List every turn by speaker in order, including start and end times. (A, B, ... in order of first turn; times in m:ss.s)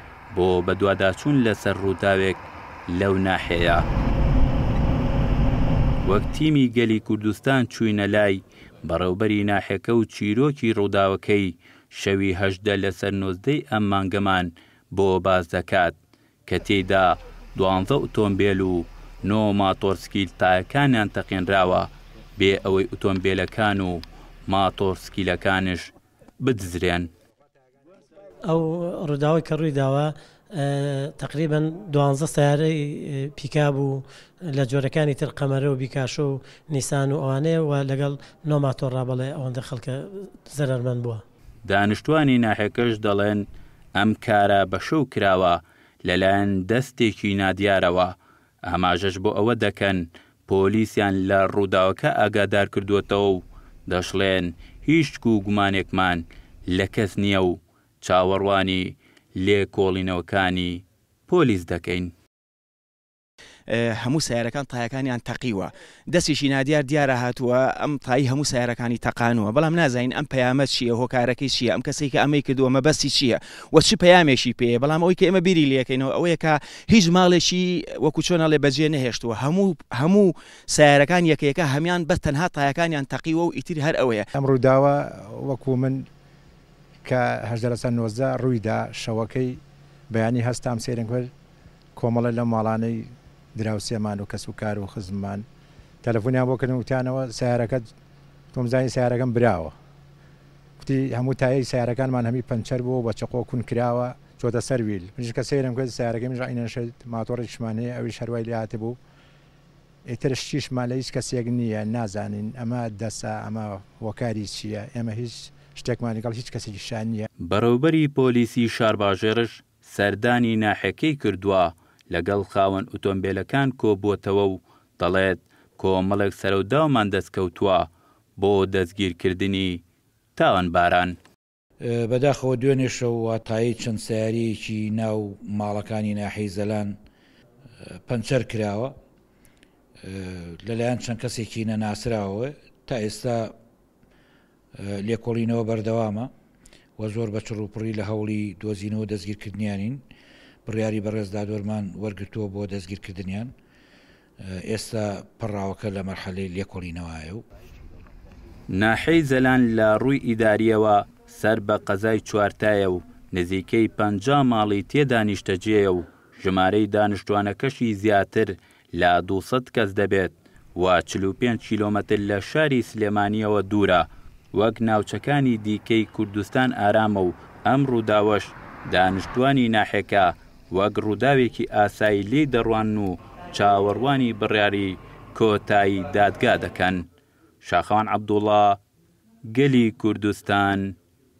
0:00.3-0:03.8 A
0:06.0-0:15.9 A
0:16.5-0:27.1 A
0:28.4-0:41.2 B
0:41.6-0:48.1 A
0:48.6-1:02.1 A
1:03.7-1:24.2 C
1:24.3-1:26.1 D
1:27.0-1:31.3 D
1:31.9-1:35.4 D
1:36.0-1:37.9 D
1:38.5-1:39.7 D
1:40.8-1:49.0 D
1:50.1-1:57.3 D
1:57.4-2:09.8 A
2:10.4-2:11.2 A
2:11.8-2:17.0 E
2:18.1-2:18.9 E
2:20.0-2:23.5 E
2:24.8-2:26.3 E
2:27.0-2:30.0 E
2:30.6-2:33.5 E
2:34.4-2:37.4 E
2:38.7-3:07.0 A
3:07.6-3:08.8 A
3:09.5-3:10.9 A